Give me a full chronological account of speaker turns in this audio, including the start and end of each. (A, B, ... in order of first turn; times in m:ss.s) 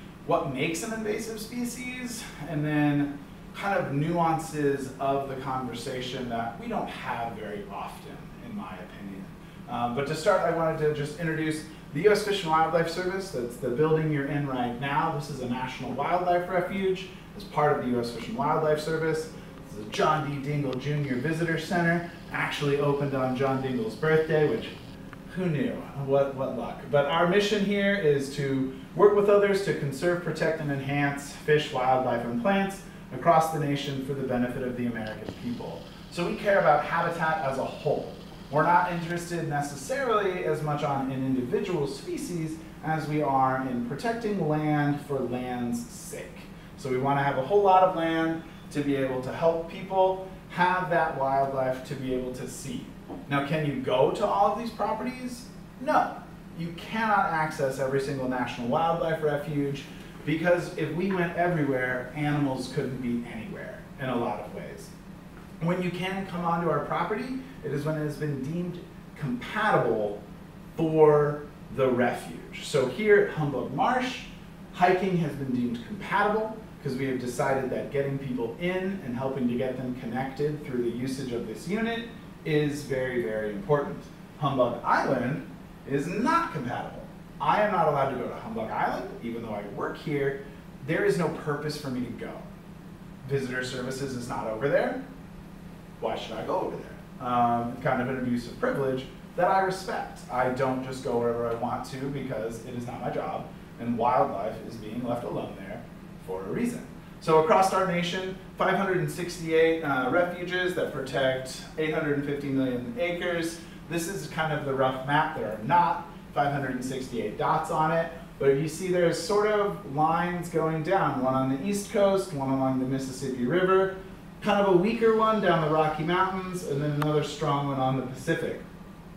0:00.2-0:24.7 A
0:25.3-1:04.9 A
1:05.6-1:10.2 A
1:10.8-1:32.4 A
1:33.2-1:35.0 A
1:36.0-2:08.6 A